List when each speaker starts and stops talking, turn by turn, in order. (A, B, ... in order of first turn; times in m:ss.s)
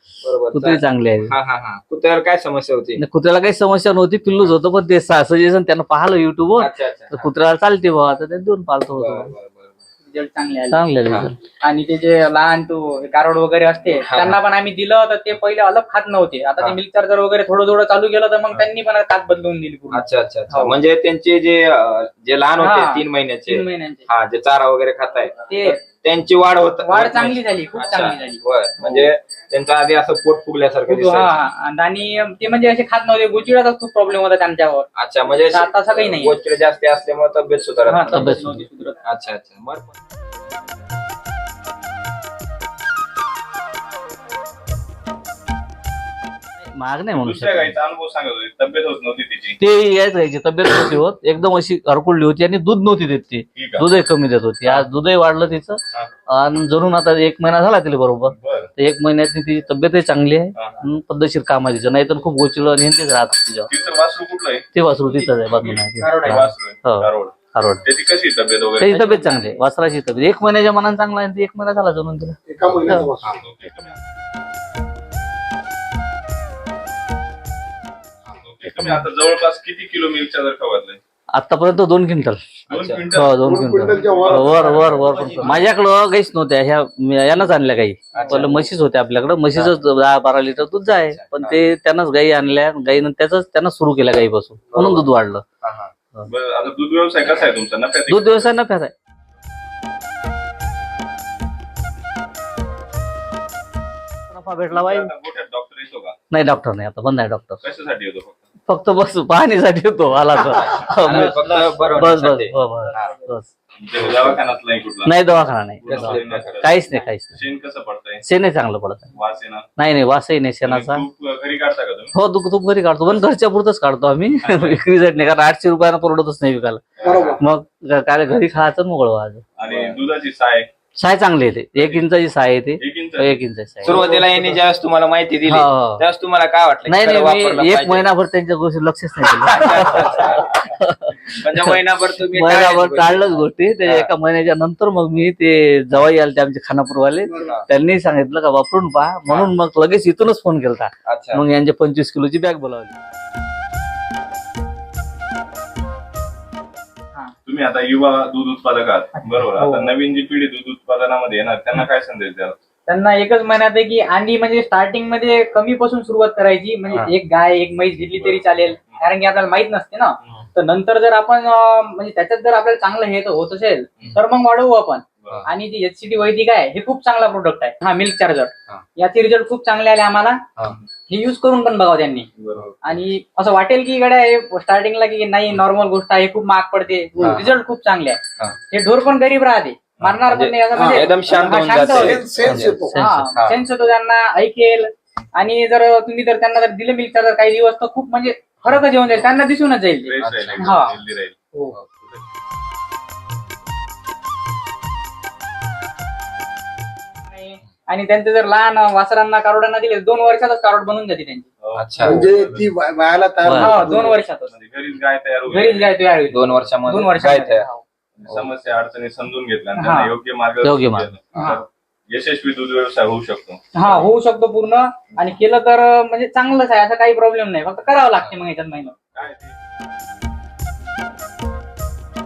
0:00.2-0:03.0 A
0:00.5-0:01.3 B
0:03.0-0:09.3 B
0:06.6-0:07.3 A
0:08.9-0:09.8 A
0:10.0-0:10.8 C
0:10.7-0:11.3 B
0:11.6-0:20.8 C
0:14.1-0:14.4 A
0:19.9-0:31.4 A
0:22.6-0:24.0 C
0:25.5-0:25.8 C
0:26.8-0:29.0 C
0:30.9-0:36.4 C
0:35.0-0:39.9 A
0:37.9-0:39.0 C
0:38.1-0:38.6 B
0:46.7-0:47.7 B
0:47.2-0:49.6 D
0:49.6-1:03.7 B
0:53.6-0:53.8 D
0:58.3-0:58.7 D
1:00.5-1:00.8 D
1:03.7-1:04.6 D
1:04.7-1:07.8 B
1:05.4-1:09.0 D
1:06.0-1:06.5 C
1:08.8-1:13.1 B
1:09.0-1:09.4 C
1:12.5-1:13.4 E
1:13.3-1:13.9 D
1:18.4-1:21.0 D
1:18.6-1:19.0 B
1:21.3-1:22.4 B
1:22.7-1:23.0 A
1:22.7-1:25.6 D
1:23.1-1:35.4 B
1:23.4-1:24.8 E
1:24.8-1:25.7 A
1:28.1-1:28.7 A
1:31.1-1:31.6 A
1:34.7-1:35.0 A
1:35.6-1:35.9 A
1:36.2-1:38.5 D
1:38.1-1:38.9 B
1:44.3-1:45.1 B
1:44.7-1:46.2 D
1:46.3-1:47.6 B
1:47.6-1:48.4 D
1:48.7-1:53.5 B
1:51.0-1:53.1 A
1:53.8-1:55.2 D
1:54.1-1:54.4 A
1:55.0-1:57.3 B
1:55.8-1:58.2 D
1:55.8-1:56.6 A
1:58.2-1:59.0 B
1:59.1-1:59.6 D
1:59.8-2:01.0 B
2:00.6-2:02.1 D
2:02.1-2:06.8 B
2:04.4-2:04.8 D
2:07.0-2:07.4 E
2:07.1-2:07.4 A
2:07.4-2:09.4 B
2:09.6-2:10.7 D
2:09.6-2:10.0 A
2:11.0-2:14.0 B
2:11.8-2:12.0 D
2:12.8-2:13.4 D
2:13.8-2:18.1 A
2:13.8-2:14.4 E
2:15.5-2:16.0 B
2:16.9-2:21.7 B
2:19.4-2:20.7 A
2:21.3-2:24.1 A
2:22.3-2:32.9 B
2:27.2-2:27.5 E
2:31.0-2:31.4 A
2:37.4-2:42.6 D
2:39.2-2:39.9 C
2:42.9-3:00.4 C
2:48.1-2:49.0 D
2:55.2-2:55.5 D
3:01.1-3:02.3 C
3:02.4-3:02.7 D
3:02.8-3:12.2 C
3:07.2-3:07.6 A
3:07.2-3:07.5 E
3:10.0-3:12.8 A
3:10.7-3:11.1 E
3:11.8-3:13.0 E
3:12.4-3:13.3 B
3:13.0-3:21.0 C
3:13.4-3:13.6 A
3:20.0-3:21.3 D
3:20.2-3:20.7 A
3:27.3-3:31.5 C
3:31.6-3:32.7 D
3:31.8-3:32.2 A
3:32.0-3:34.2 E
3:33.4-3:33.8 B
3:33.5-3:34.5 C
3:34.0-3:36.0 D
3:35.4-3:37.8 C
3:36.3-3:37.7 A
3:38.2-3:43.6 D
3:39.8-3:40.1 C
3:40.6-3:41.1 B
3:43.8-3:49.0 C
3:49.1-3:49.5 D